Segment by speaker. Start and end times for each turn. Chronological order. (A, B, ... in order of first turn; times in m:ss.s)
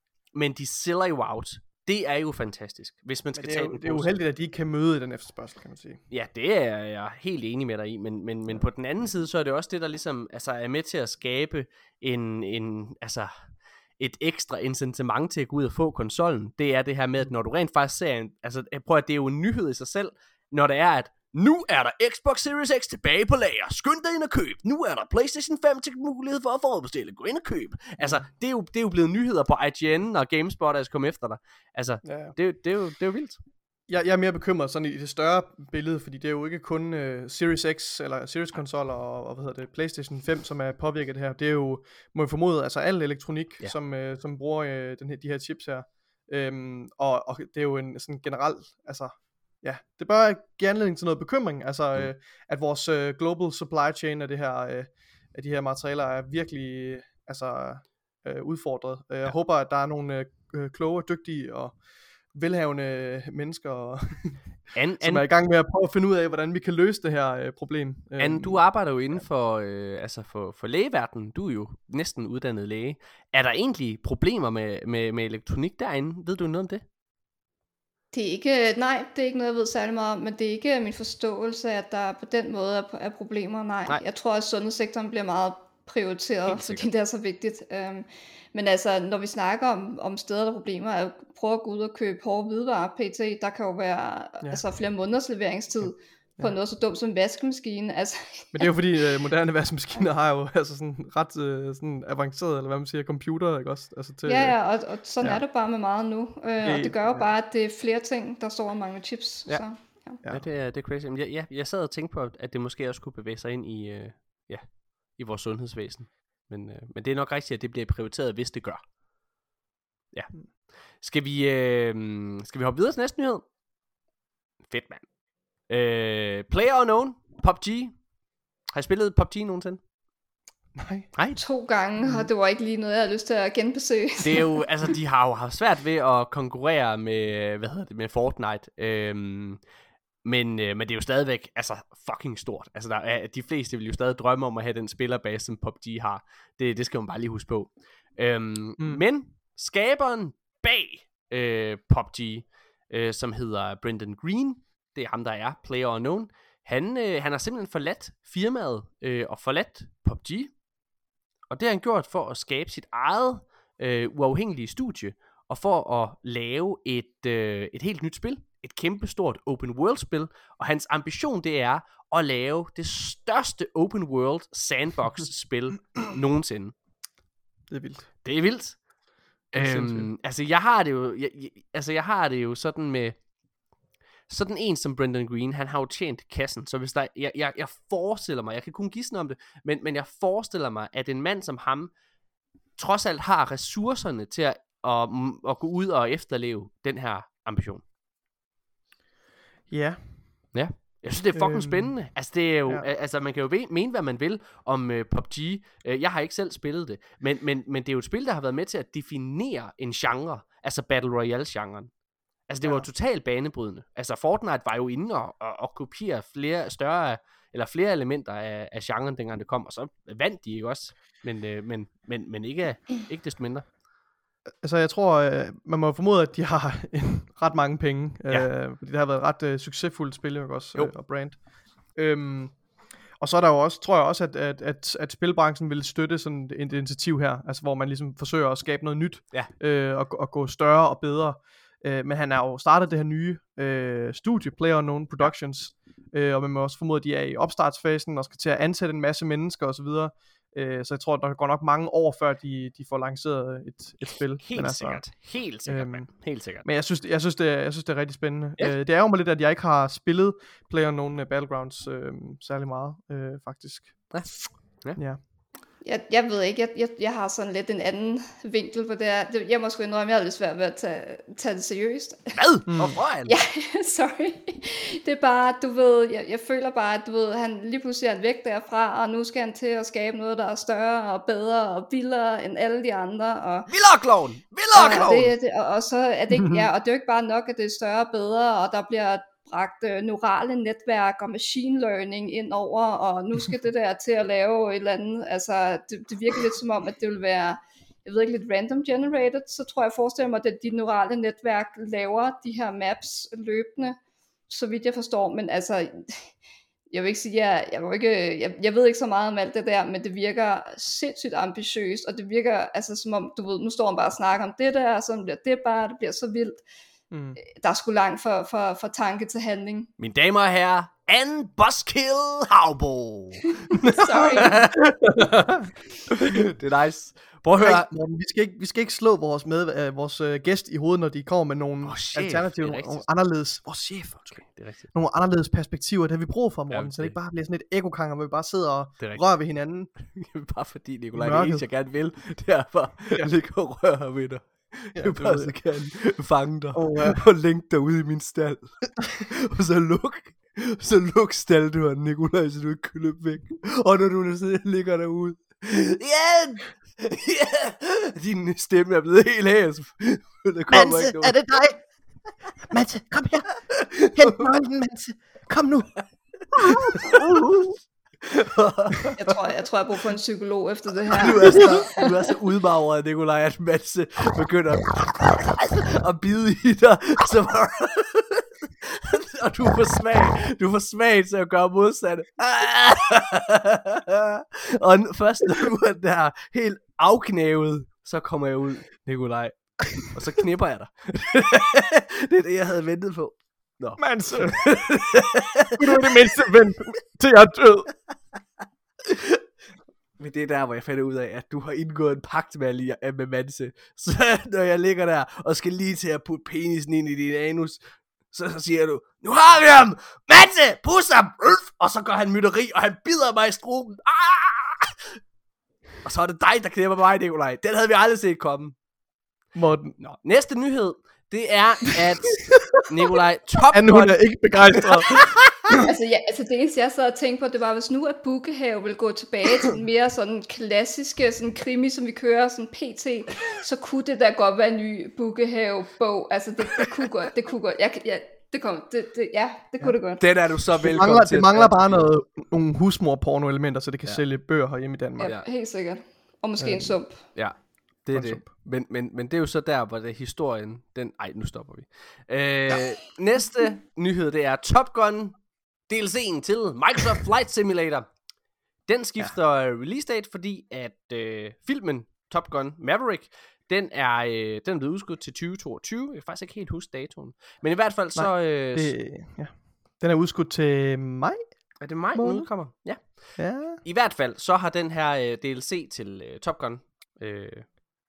0:00.3-0:04.1 A
0:03.4-0:06.0 B
0:06.1-0:13.3 A
0:14.0-0:33.4 A
0:28.0-0:28.2 B
0:32.0-0:32.3 B
0:33.9-1:01.8 B
1:02.3-1:04.4 B
1:04.7-1:05.2 A
1:05.0-1:08.6 B
1:08.2-1:16.8 A
1:18.1-1:38.7 C
1:26.5-1:26.9 A
1:38.5-1:45.4 B
1:44.2-1:50.2 C
1:46.6-1:47.3 B
1:50.2-1:58.8 A
2:01.0-2:03.4 A
2:04.6-2:05.0 A
2:05.7-2:08.0 A
2:08.7-2:09.8 A
2:10.7-2:11.1 B
2:11.4-2:14.5 C
2:12.0-2:12.3 B
2:14.2-2:19.6 A
2:20.2-2:40.5 A
2:28.8-2:29.0 B
2:41.5-2:56.7 A
2:57.7-2:58.1 B
2:58.2-2:58.8 A
2:59.5-3:00.1 B
2:59.5-3:03.2 A
3:04.3-3:11.9 A
3:12.8-3:17.8 A
3:19.7-3:20.5 B
3:20.5-3:31.9 A
3:21.3-3:22.0 B
3:32.5-3:43.6 A
3:44.6-3:51.4 B
3:51.9-3:52.6 B
3:53.2-4:15.0 B
4:14.5-4:16.6 A
4:15.6-4:16.1 B
4:16.6-4:24.1 B
4:24.1-4:25.0 A
4:25.8-4:32.4 C
4:32.4-4:33.3 A
4:32.7-4:33.0 B
4:33.2-4:43.7 C
4:43.7-4:45.3 A
4:44.7-5:04.0 C
4:46.4-4:46.6 B
5:04.5-5:06.3 C
5:06.9-5:16.6 C
5:17.1-5:17.4 B
5:17.4-5:19.9 C
5:20.0-5:23.7 A
5:23.7-5:24.6 C
5:23.7-5:26.3 B
5:24.4-5:25.3 A
5:26.1-5:27.8 A
5:27.6-5:34.4 B
5:31.8-5:33.0 A
5:34.3-5:34.8 A
5:34.9-5:39.9 B
5:36.7-5:37.1 A
5:40.1-6:01.4 A
5:41.1-5:41.6 B
5:44.9-5:45.5 B
5:46.7-5:47.2 B
6:00.7-6:01.8 B
6:02.7-6:03.5 B
6:03.7-6:04.5 A
6:04.1-6:05.9 B
6:06.0-6:09.3 A
6:06.5-6:07.7 B
6:09.2-6:12.1 C
6:11.1-6:36.2 A
6:11.4-6:11.8 B
6:34.0-6:34.6 B
6:35.8-6:37.9 B
6:39.1-6:39.4 A
6:40.2-6:47.8 A
6:48.3-6:55.0 A
6:56.0-6:58.7 A
6:59.5-7:00.0 B
7:00.0-7:05.8 A
7:02.5-7:03.1 B
7:03.7-7:05.8 B
7:05.8-7:20.2 C
7:20.2-7:22.1 A
7:20.7-7:25.3 B
7:25.2-7:27.2 C
7:26.6-7:26.9 B
7:27.3-7:35.4 A
7:28.1-7:28.5 B
7:35.9-7:38.0 A
7:38.9-7:48.9 A
7:48.2-7:51.4 B
7:51.8-7:57.7 A
7:52.1-7:52.5 B
7:53.4-7:53.8 B